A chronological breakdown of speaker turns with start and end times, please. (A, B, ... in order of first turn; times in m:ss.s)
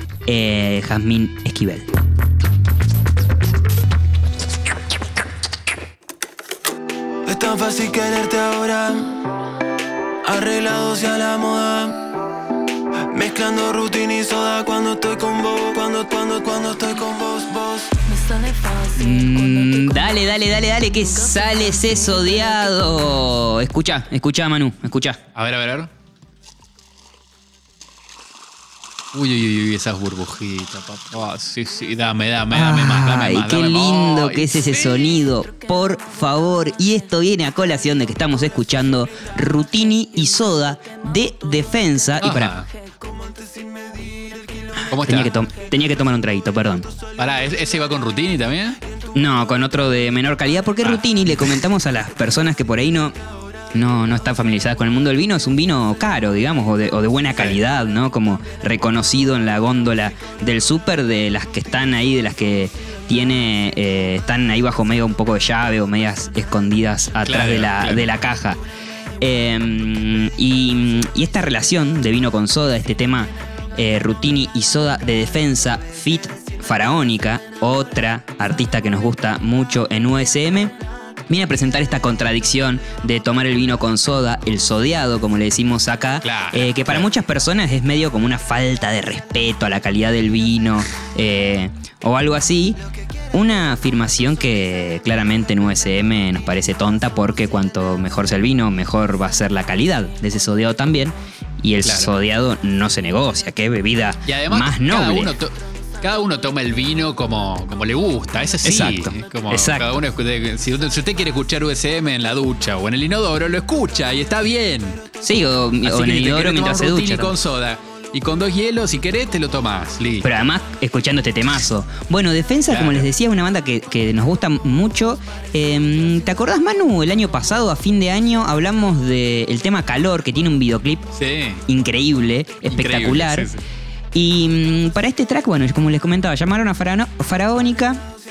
0:00.3-0:01.9 A
0:07.2-0:09.2 B
0:10.2-0:12.1 B
0:13.1-0:23.0 B
0:19.0-0:25.2 A
0:25.3-0:25.9 C
0:29.1-0:35.1 C
0:32.5-0:42.6 A
0:42.2-0:42.7 C
0:43.1-0:44.2 B
0:44.9-0:45.3 C
0:45.0-0:46.9 A
0:47.2-0:48.8 C
0:49.1-0:53.1 A
0:50.8-0:51.5 C
0:53.7-1:08.6 A
1:07.2-1:08.1 C
1:09.2-1:20.7 A
1:21.3-1:32.8 A
1:26.2-1:27.0 C
1:33.3-1:45.3 A
1:41.8-1:42.1 C
1:44.2-1:45.5 C
1:46.0-1:55.0 C
1:48.6-1:50.0 A
1:55.2-1:57.3 A
1:55.8-2:00.3 C
2:00.2-2:11.1 A
2:02.7-2:03.1 C
2:11.2-2:11.6 C
2:11.7-2:13.5 A
2:12.7-2:13.6 C
2:14.1-2:18.0 A